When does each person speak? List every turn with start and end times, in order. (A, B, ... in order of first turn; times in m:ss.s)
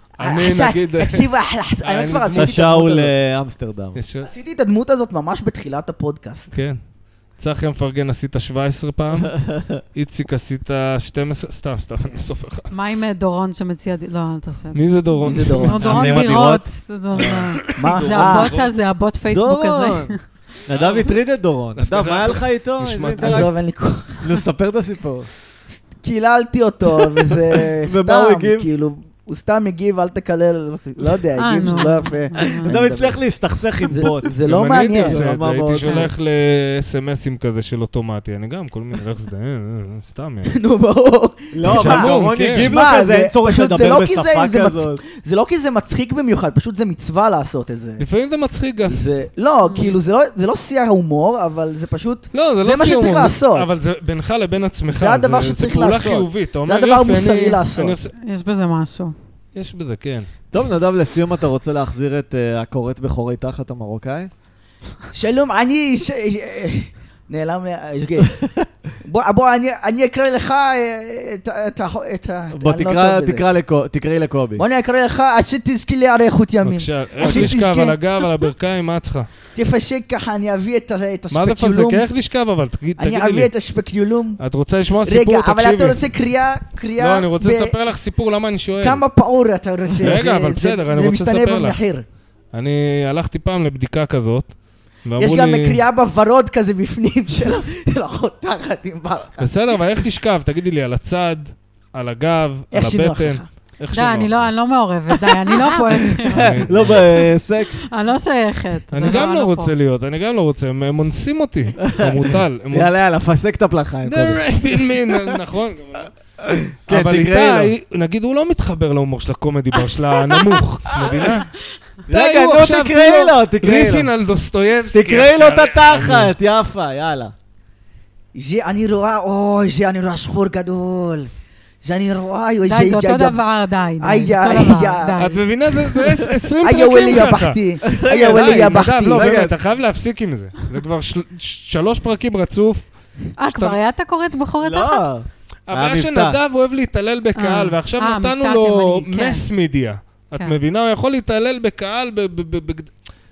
0:00.2-0:01.3 A
0:00.2-0:03.1 B
0:01.8-0:02.6 A
0:02.3-0:04.0 C
0:03.9-0:04.3 A
0:04.2-0:06.5 B
0:06.5-0:06.8 A
0:07.4-0:09.3 A
0:09.2-0:09.8 C
0:09.9-0:12.7 A
0:12.7-0:20.2 D
0:14.7-0:16.1 A
0:15.2-0:16.2 B
0:15.7-0:17.6 C
0:17.2-0:18.7 A
0:17.7-0:18.6 B
0:19.3-0:20.1 C
0:20.7-0:23.5 C
0:20.7-0:21.1 A
0:21.8-0:23.5 A
0:23.2-0:24.4 B
0:24.2-0:25.3 C
0:25.7-0:33.2 B
0:27.2-0:28.7 C
0:31.4-0:32.7 D
0:32.4-0:34.4 C
0:33.8-0:35.2 B
0:34.4-0:40.6 A
0:35.0-0:36.1 C
0:35.8-0:36.1 D
0:40.5-0:48.0 B
0:41.5-0:45.0 C
0:41.6-0:42.7 A
0:48.0-0:49.0 A
0:48.9-0:53.7 B
0:49.6-0:50.0 D
0:52.3-0:58.1 A
0:54.9-0:58.0 B
0:58.2-0:59.1 D
0:59.5-1:00.3 A
1:00.5-1:04.3 C
1:05.1-1:08.4 B
1:09.0-1:13.4 B
1:12.5-1:14.6 C
1:14.6-1:18.0 B
1:16.6-1:19.3 A
1:17.2-1:17.5 C
1:19.5-1:22.0 B
1:21.3-1:23.5 A
1:23.0-1:24.4 B
1:24.4-1:26.0 A
1:25.0-1:27.7 B
1:27.0-1:29.0 A
1:28.8-1:32.0 B
1:30.0-1:31.8 A
1:32.5-1:34.5 A
1:35.0-1:35.8 A
1:35.2-1:39.5 B
1:39.4-1:44.5 A
1:42.7-1:43.5 B
1:43.9-1:46.6 D
1:46.2-1:47.1 A
1:46.3-1:47.8 C
1:47.9-1:49.7 D
1:48.9-1:52.9 A
1:51.8-1:54.8 C
1:54.0-1:56.1 A
1:56.4-1:57.7 C
1:56.9-2:01.5 A
2:02.1-2:04.1 C
2:02.1-2:06.3 A
2:04.9-2:07.3 C
2:08.3-2:11.3 B
2:11.8-2:13.4 B
2:12.6-2:15.4 D
2:14.0-2:15.2 B
2:14.5-2:14.9 C
2:15.2-2:22.9 A
2:16.6-2:19.3 B
2:17.8-2:19.6 C
2:23.4-2:25.0 D
2:23.4-2:23.8 A
2:24.6-2:26.4 C
2:25.7-2:32.9 A
2:27.4-2:29.4 D